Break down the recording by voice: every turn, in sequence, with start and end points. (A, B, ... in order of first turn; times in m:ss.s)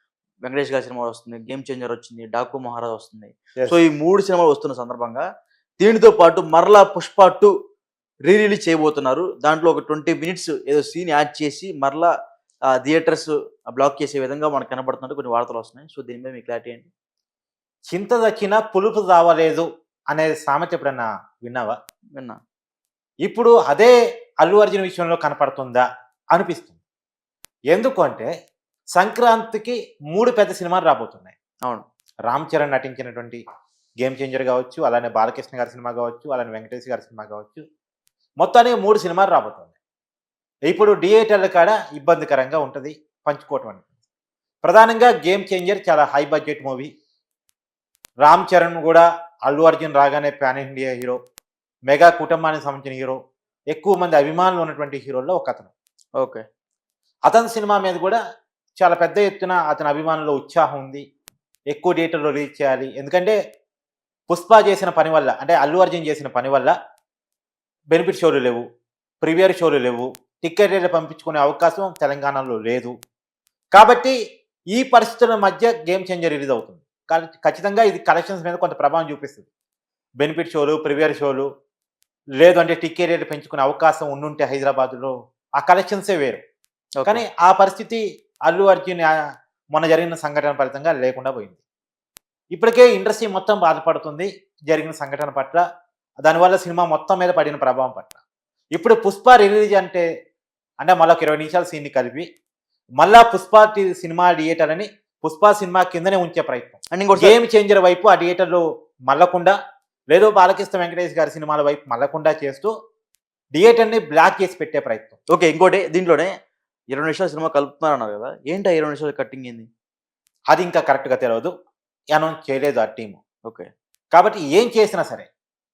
0:00.4-0:05.2 A
0:05.8-0:07.5 A
0:08.3-0:12.1 A
0:12.7-0:16.9 A
0:17.9-0:21.8 B
0:23.2-0:26.8 B
0:27.7-0:28.3 B
0:29.0-0:31.3 B
0:32.3-0:33.4 B
0:34.0-0:37.6 B
0:38.4-0:39.7 B
0:40.7-0:43.9 B
0:44.6-0:46.9 B
0:48.2-0:51.2 B
0:51.9-0:53.2 B
0:53.7-0:55.7 B
0:56.2-0:56.4 A
0:57.3-0:58.2 B
0:58.8-1:01.0 B
1:01.7-1:03.4 B
1:04.3-1:06.7 B
1:07.9-1:08.6 B
1:09.2-1:12.9 B
1:13.7-1:14.2 B
1:14.7-1:19.4 B
1:20.2-1:21.5 B
1:22.4-1:26.4 B
1:27.0-1:27.2 A
1:27.0-1:29.1 B
1:29.7-1:31.6 B
1:32.5-1:35.6 B
1:36.2-1:38.2 B
1:38.7-1:40.0 B
1:40.8-1:42.3 B
1:43.0-1:49.6 B
1:46.9-1:47.4 A
1:50.1-1:52.7 B
1:53.5-1:55.2 B
1:55.3-1:56.3 A
1:56.9-1:59.7 A
2:00.5-2:01.5 B
2:02.1-2:03.2 B
2:04.1-2:05.3 B